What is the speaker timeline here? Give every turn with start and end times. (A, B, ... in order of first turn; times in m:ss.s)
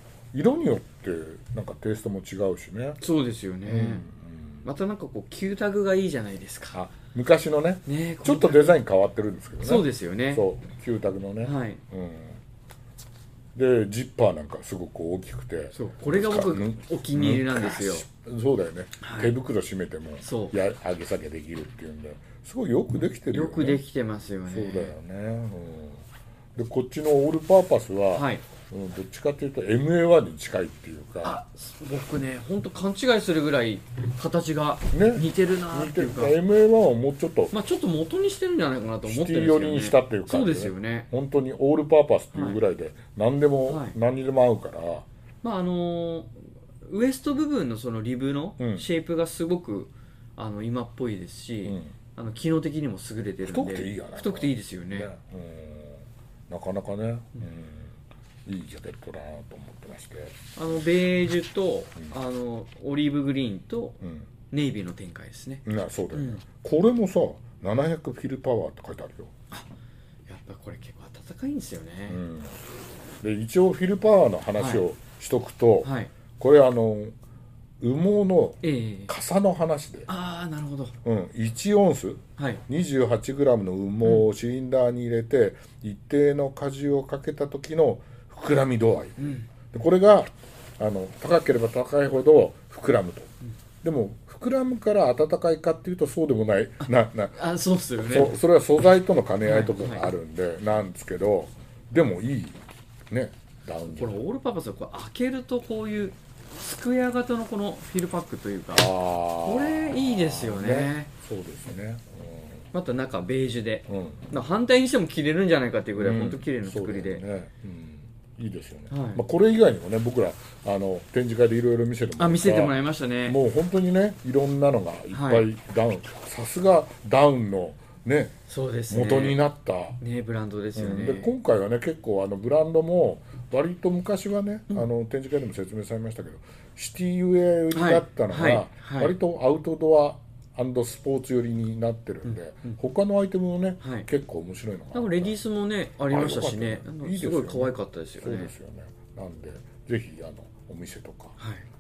0:00.3-0:03.0 A
0:03.0-0:04.1 B
0:03.6-0:04.7 A
0:04.6-0:06.8 B
0:06.7-0:12.4 A
0:07.9-0:08.8 B
0:09.6-0:10.4 B
0:11.4-0:11.8 B
0:13.6-0:23.8 A
0:15.7-0:18.1 B
0:19.0-0:19.3 B
0:20.2-0:20.5 B
0:23.3-0:24.9 B
0:24.5-0:26.0 A
0:26.6-0:31.4 A
0:28.1-0:28.4 B
0:31.2-0:36.4 B
0:34.9-0:37.5 A
0:37.5-0:41.1 B
0:39.0-0:45.0 A
0:42.3-0:42.6 B
0:43.7-0:44.0 B
0:45.4-0:46.3 B
0:46.8-0:55.1 B
0:48.6-0:48.9 A
0:51.6-0:52.0 A
0:53.4-1:00.4 A
1:00.6-1:04.0 B
1:04.0-1:04.3 A
1:04.5-1:06.4 B
1:05.7-1:09.3 A
1:10.3-1:12.2 B
1:12.1-1:12.6 A
1:13.2-1:17.1 A
1:14.6-1:14.8 B
1:15.8-1:16.1 B
1:17.8-1:20.1 A
1:18.6-1:19.1 B
1:20.1-1:21.0 B
1:21.0-1:33.3 A
1:22.4-1:22.6 B
1:29.2-1:29.5 B
1:33.8-1:37.4 A
1:37.4-1:38.4 B
1:38.0-1:44.2 A
1:39.4-1:40.1 B
1:43.9-1:48.9 B
1:48.7-1:52.6 A
1:49.4-1:51.1 B
1:52.7-1:57.2 B
1:53.9-1:54.3 A
1:55.9-2:08.4 A
1:58.9-1:59.2 B
2:02.2-2:03.4 B
2:05.1-2:05.5 B
2:08.5-2:09.4 B
2:08.9-2:10.0 A
2:10.0-2:11.3 B
2:10.8-2:25.4 A
2:17.7-2:19.1 B
2:22.3-2:22.8 B
2:23.8-2:24.1 B
2:24.9-2:28.5 B
2:26.1-2:31.4 A
2:31.4-2:31.6 B